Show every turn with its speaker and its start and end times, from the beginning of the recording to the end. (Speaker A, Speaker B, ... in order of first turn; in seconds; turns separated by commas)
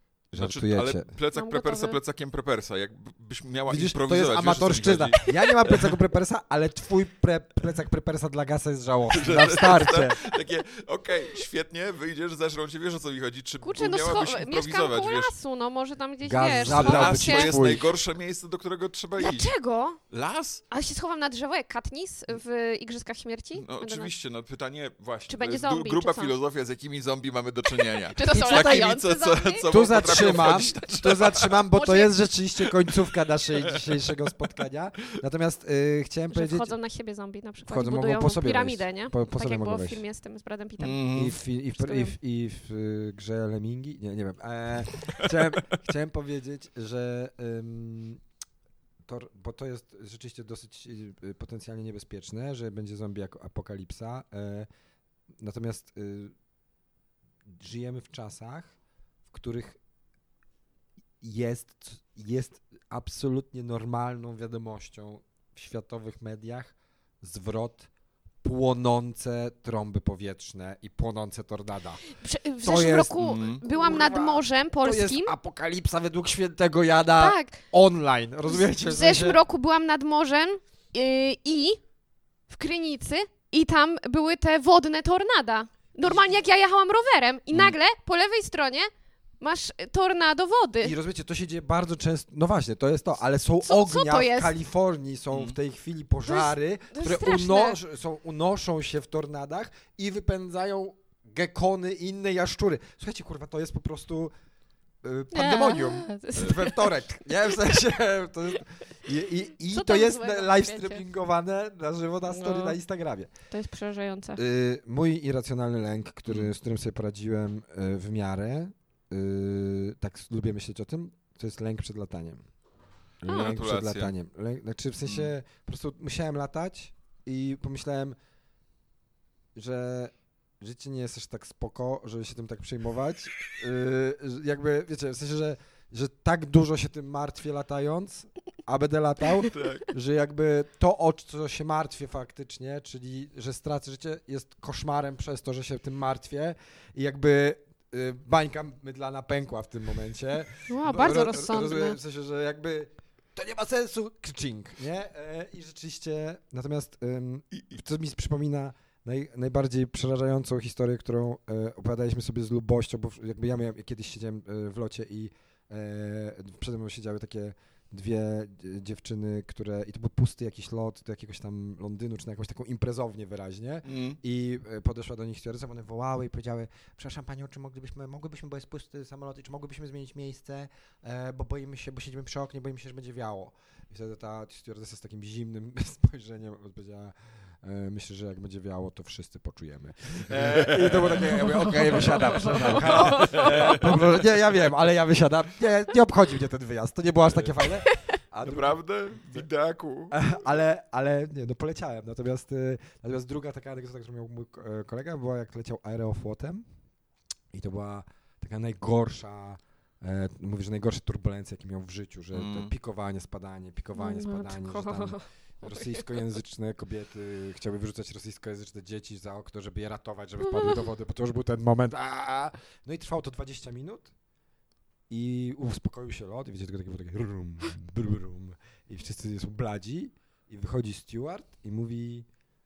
Speaker A: 0.3-1.1, Speaker B: 0.4-5.9, Speaker C: 1.4-2.0, Speaker A: 3.7-10.2, Speaker B: 9.1-15.3, Speaker C: 13.6-17.6, Speaker A: 16.2-17.9, Speaker B: 16.6-19.5, Speaker C: 19.2-20.0, Speaker B: 20.1-20.6, Speaker C: 20.7-24.1, Speaker B: 23.5-31.6, Speaker C: 25.3-26.3, Speaker C: 27.8-30.7, Speaker A: 28.3-28.9, Speaker A: 29.7-36.7, Speaker C: 31.7-32.1, Speaker B: 33.6-34.1, Speaker C: 36.3-41.0, Speaker A: 37.6-40.0, Speaker B: 40.8-41.4, Speaker A: 41.1-48.2, Speaker C: 41.8-42.1, Speaker A: 49.0-54.7, Speaker A: 55.4-56.3, Speaker A: 57.5-58.7, Speaker A: 59.3-59.8, Speaker A: 61.2-67.9, Speaker A: 68.4-72.0, Speaker C: 72.1-75.3, Speaker A: 72.6-79.4, Speaker B: 73.2-73.6, Speaker C: 77.2-77.6, Speaker C: 78.4-81.8, Speaker C: 82.5-90.9, Speaker A: 86.0-86.4, Speaker A: 90.8-104.3, Speaker C: 93.6-94.5, Speaker B: 95.3-95.6, Speaker C: 96.2-97.8, Speaker A: 105.0-113.3, Speaker C: 105.3-106.8, Speaker B: 106.3-106.6, Speaker C: 109.7-111.0, Speaker C: 112.3-112.8, Speaker C: 113.5-114.4, Speaker A: 114.3-122.4, Speaker A: 123.2-128.2, Speaker B: 123.2-124.1, Speaker B: 125.0-125.3, Speaker A: 129.5-199.5, Speaker B: 139.5-139.9, Speaker C: 150.7-152.0, Speaker B: 157.5-157.8, Speaker B: 173.8-174.2, Speaker B: 190.2-194.3, Speaker C: 192.2-193.9, Speaker B: 197.3-197.6, Speaker B: 198.4-200.4, Speaker A: 200.1-206.6, Speaker A: 207.5-224.1, Speaker B: 212.3-212.7, Speaker C: 214.0-215.9, Speaker C: 220.4-220.8, Speaker A: 225.1-232.3